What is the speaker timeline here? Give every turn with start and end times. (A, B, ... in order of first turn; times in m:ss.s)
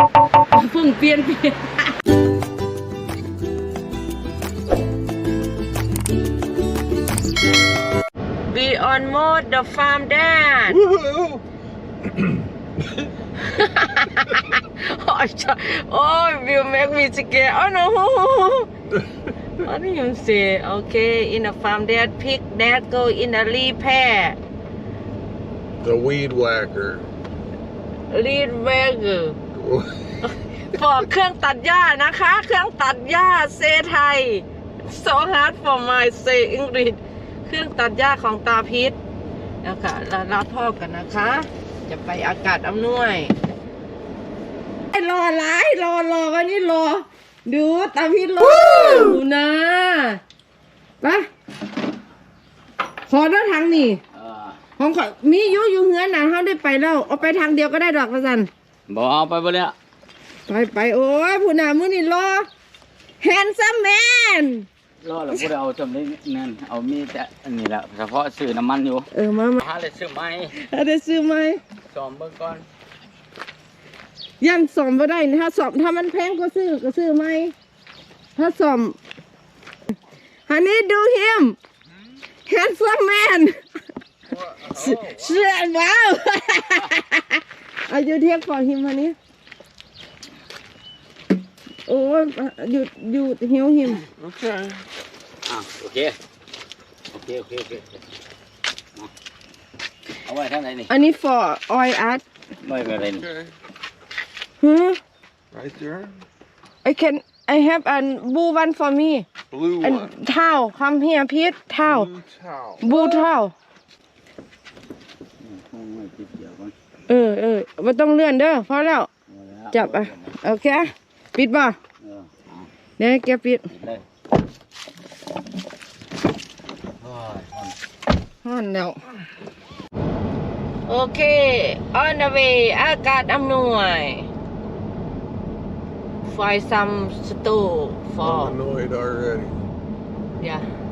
0:00.5-0:01.9 A
0:08.5-0:10.8 A
0:10.8-0:11.4 B
0:13.4-0:18.7 A
0:19.6-0:24.4 A
0:25.8-0:27.1 B
0:28.1-0:29.4 A
0:29.5-0:30.1 B
0:30.2-0:39.0 A
0:39.6-0:43.3 A
0:44.9-0:50.2 A
0:53.1-0:54.0 A
0:54.1-0:54.6 C
0:54.8-0:58.5 A
0:58.9-0:59.7 C
1:00.5-1:02.5 A
1:03.2-1:04.6 A
1:05.0-1:09.1 C
1:09.1-1:09.6 A
1:09.6-1:10.6 C
1:10.5-1:11.6 A
1:11.9-1:12.6 C
1:14.4-1:17.5 A
1:18.4-1:19.0 A
1:20.5-1:21.6 A
1:22.5-1:23.6 A
1:24.6-1:29.1 A
1:31.9-1:34.0 A
1:34.2-1:34.8 B
1:35.4-1:36.2 C
1:37.1-1:38.0 C
1:40.2-1:40.9 C
1:40.9-1:42.2 A
1:42.6-1:43.3 C
1:43.2-1:43.5 B
1:44.6-1:45.0 A
1:45.5-1:46.2 B
1:46.8-1:49.2 A
1:49.5-1:50.1 B
1:49.8-1:52.1 A
1:51.8-1:53.2 B
1:52.8-1:53.5 A
1:55.4-1:56.7 C
1:57.1-1:59.1 A
1:59.3-2:00.3 C
1:59.7-2:01.8 A
2:02.0-2:02.7 C
2:03.0-2:03.7 A
2:03.7-2:04.0 C
2:07.0-2:07.7 C
2:08.4-2:09.0 A
2:10.8-2:14.3 A
2:16.2-2:18.6 A
2:18.2-2:19.6 B
2:20.4-2:20.6 A